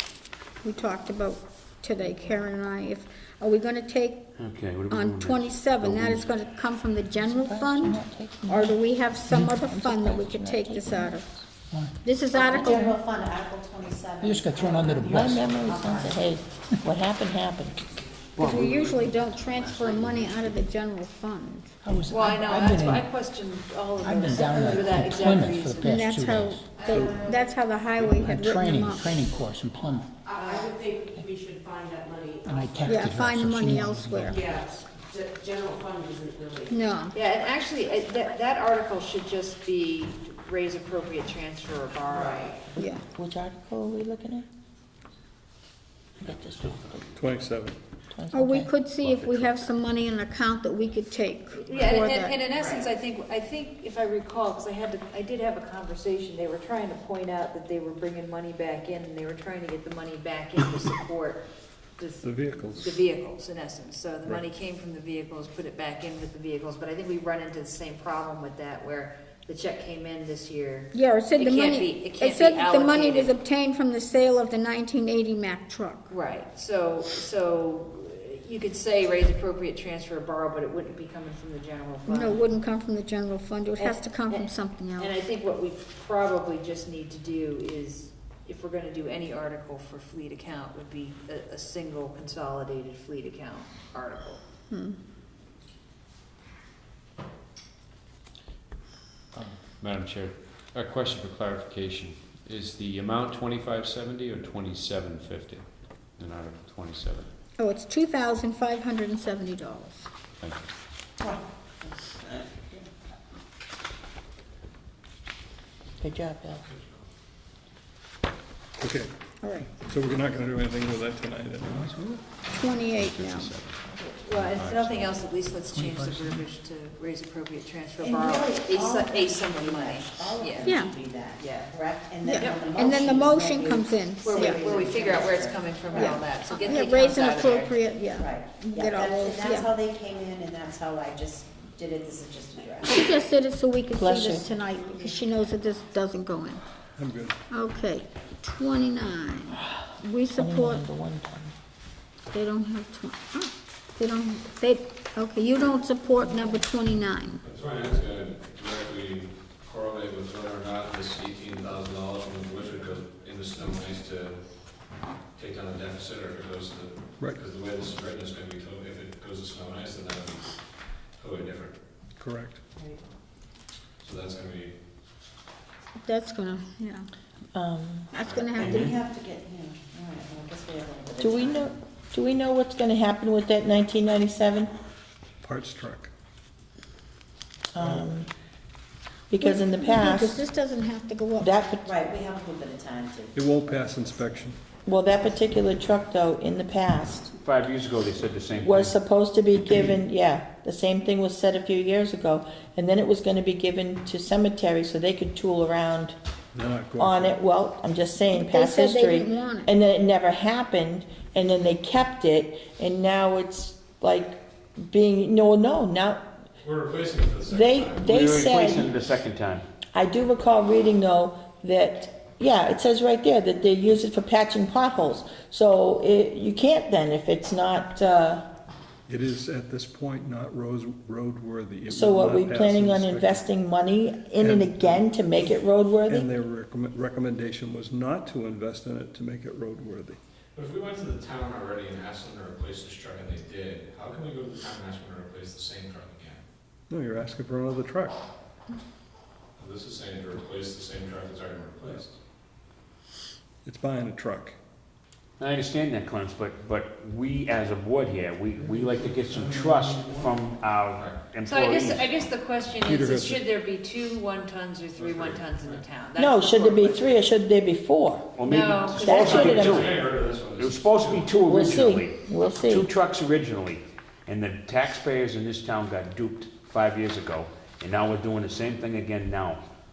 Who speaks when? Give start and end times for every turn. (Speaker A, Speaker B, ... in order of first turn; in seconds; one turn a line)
Speaker A: 0.6-4.3
Speaker B: 4.4-6.3
Speaker A: 4.9-11.2
Speaker C: 7.2-8.8
Speaker C: 9.6-11.3
Speaker A: 12.0-13.0
Speaker D: 12.3-16.3
Speaker E: 14.2-15.1
Speaker C: 15.1-17.8
Speaker B: 18.4-20.3
Speaker A: 18.4-21.7
Speaker E: 21.8-22.9
Speaker F: 22.1-26.1
Speaker E: 24.0-26.6
Speaker A: 25.8-29.1
Speaker G: 26.8-27.5
Speaker H: 26.9-27.3
Speaker E: 28.0-30.1
Speaker G: 30.2-33.0
Speaker F: 30.3-30.8
Speaker E: 32.5-34.4
Speaker A: 32.9-34.4
Speaker G: 34.4-36.7
Speaker A: 36.7-37.1
Speaker F: 37.1-42.6
Speaker G: 42.1-42.6
Speaker A: 42.8-43.0
Speaker C: 42.8-44.5
Speaker C: 46.2-47.1
Speaker H: 47.1-47.8
Speaker C: 48.1-48.7
Speaker A: 48.3-52.3
Speaker B: 49.0-49.7
Speaker F: 51.5-61.4
Speaker D: 52.5-52.9
Speaker F: 62.0-73.3
Speaker H: 62.2-63.0
Speaker A: 70.9-76.1
Speaker F: 76.1-82.4
Speaker A: 82.1-85.1
Speaker F: 83.8-94.4
Speaker A: 94.7-95.0
Speaker I: 99.8-107.3
Speaker A: 107.6-110.1
Speaker D: 111.2-112.8
Speaker C: 116.0-116.6
Speaker H: 118.8-119.1
Speaker A: 119.4-119.7
Speaker H: 119.7-122.2
Speaker A: 122.5-123.5
Speaker I: 123.0-123.7
Speaker F: 124.0-130.8
Speaker I: 124.5-125.2
Speaker E: 125.8-126.4
Speaker D: 128.0-136.8
Speaker A: 130.6-130.9
Speaker F: 131.4-131.8
Speaker A: 132.2-134.6
Speaker F: 132.3-132.6
Speaker F: 134.2-137.8
Speaker A: 135.9-139.7
Speaker D: 138.1-143.3
Speaker A: 142.8-146.6
Speaker C: 143.9-144.4
Speaker H: 147.0-147.3
Speaker A: 147.5-150.8
Speaker C: 150.3-151.5
Speaker A: 152.3-157.4
Speaker J: 157.4-164.4
Speaker J: 165.3-170.5
Speaker H: 167.2-167.4
Speaker J: 171.2-171.7
Speaker H: 172.2-172.6
Speaker J: 174.0-174.7
Speaker A: 176.0-177.1
Speaker C: 177.5-178.1
Speaker A: 178.1-178.9
Speaker D: 178.2-181.7
Speaker B: 178.6-178.9
Speaker C: 181.2-184.7
Speaker H: 185.4-186.1
Speaker C: 187.7-188.3
Speaker H: 187.8-188.1
Speaker C: 189.3-190.4
Speaker A: 189.4-191.5
Speaker C: 191.4-191.9
Speaker D: 191.8-194.1
Speaker H: 193.3-194.6
Speaker C: 194.8-197.3
Speaker B: 197.4-198.9
Speaker C: 198.6-206.2
Speaker H: 206.5-207.4
Speaker C: 207.0-216.3
Speaker A: 208.4-209.7
Speaker J: 216.6-218.8
Speaker C: 217.5-218.9
Speaker B: 218.1-219.6
Speaker C: 219.9-228.5
Speaker H: 229.1-233.4
Speaker C: 231.9-236.3
Speaker H: 234.4-240.2
Speaker J: 240.5-246.4
Speaker H: 246.9-248.2
Speaker J: 249.6-252.1
Speaker H: 253.6-254.6
Speaker B: 255.4-262.1
Speaker H: 258.6-260.1
Speaker J: 260.9-261.3
Speaker F: 261.4-267.0
Speaker H: 262.8-263.4
Speaker J: 264.9-265.9
Speaker C: 266.1-268.3
Speaker B: 268.4-279.6
Speaker F: 268.4-269.5
Speaker J: 268.9-271.4
Speaker C: 268.9-269.9
Speaker C: 271.4-272.9